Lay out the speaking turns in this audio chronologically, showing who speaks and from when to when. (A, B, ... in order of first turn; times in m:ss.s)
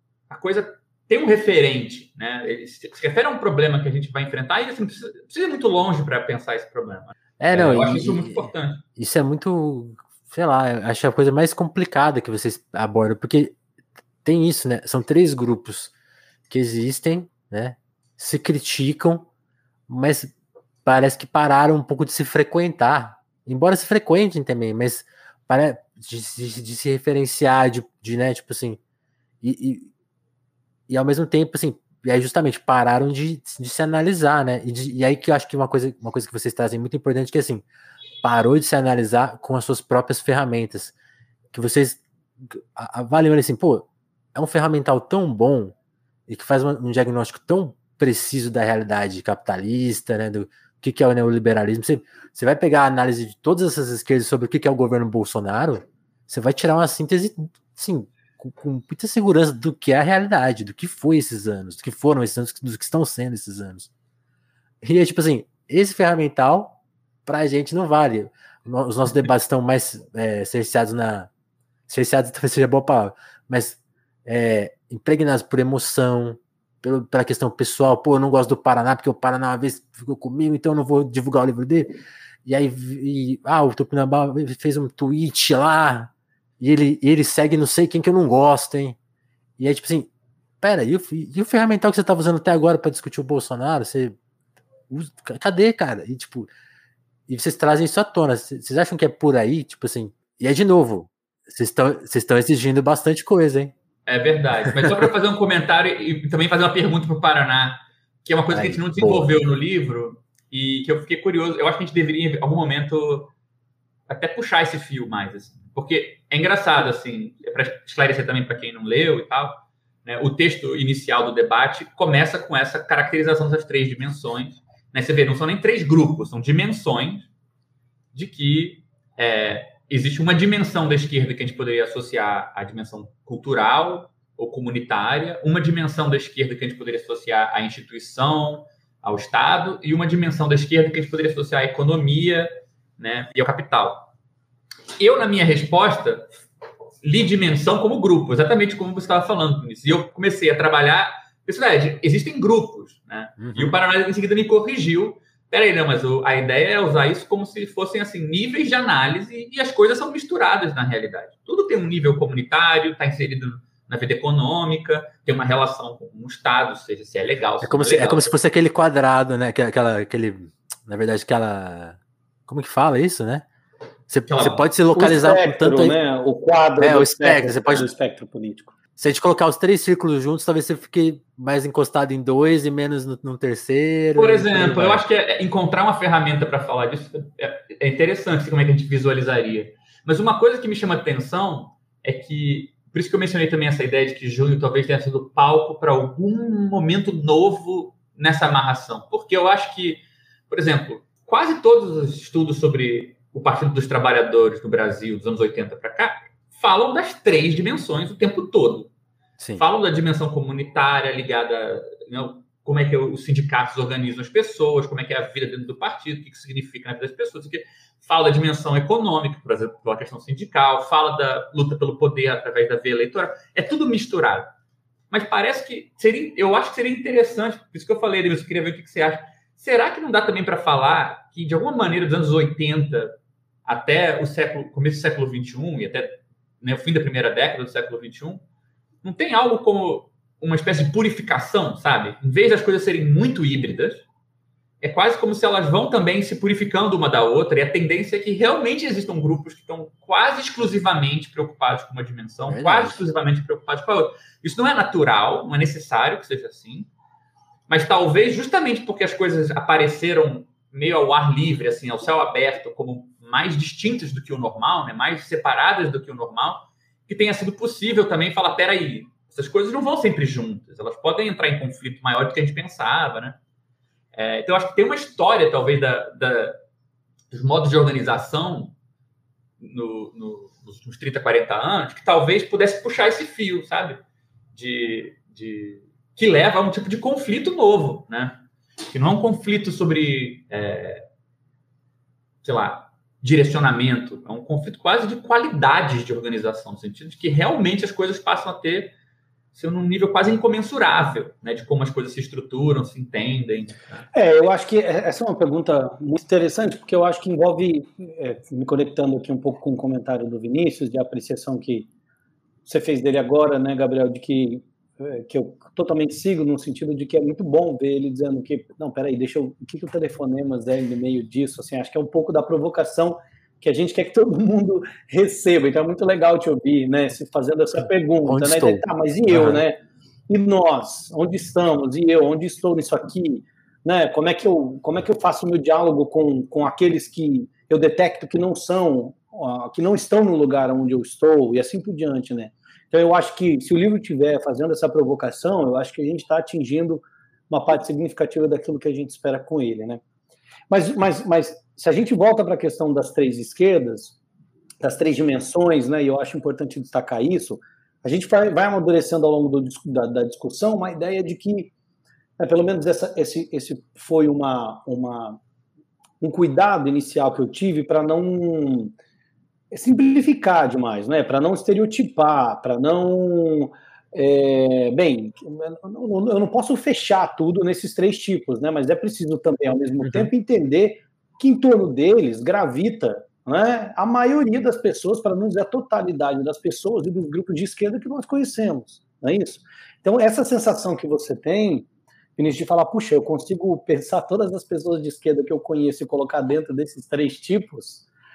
0:00.3-0:08.8 A
0:07.4-0:13.6 B
0:14.2-0:15.9 B
0:16.5-0:19.3 B
0:19.9-0:20.3 B
0:20.8-0:28.8 B
0:29.4-0:29.9 B
0:30.9-0:37.6 B
0:38.2-0:41.0 B
0:41.5-0:45.7 B
0:46.3-1:03.9 B
1:04.8-1:11.3 B
1:11.9-1:21.9 B
1:22.4-1:29.0 B
1:29.6-1:30.1 B
1:30.6-1:34.2 B
1:34.9-1:36.5 B
1:37.3-1:43.7 B
1:44.1-1:53.3 A
1:44.7-1:45.0 B
1:48.5-1:49.3 B
1:54.1-2:07.3 A
2:08.1-2:24.1 A
2:25.0-2:26.2 A
2:27.0-2:48.3 A
2:33.4-2:33.8 B
2:47.6-2:53.4 B
2:54.1-2:56.0 B
2:54.2-2:54.6 A
2:54.9-2:58.7 C
2:56.8-2:57.9 B
2:59.0-3:05.0 B
3:04.2-3:28.9 A
3:29.6-3:44.5 A
3:45.1-3:58.4 A
3:59.0-4:04.0 A
4:04.8-4:16.9 A
4:12.5-4:13.0 B
4:17.7-4:33.4 A
4:34.1-4:36.6 A
4:37.3-4:38.7 A
4:39.6-4:44.0 A
4:44.5-4:51.0 A
4:52.4-4:58.9 A
4:59.5-5:04.0 A
5:04.1-5:11.9 C
5:12.6-5:29.8 C
5:27.8-5:29.6 B
5:30.3-5:50.0 C
5:50.7-5:54.2 C
5:54.8-6:01.7 C
6:02.4-6:05.4 C
6:06.2-6:08.9 C
6:09.7-6:38.0 C
6:20.0-6:20.3 B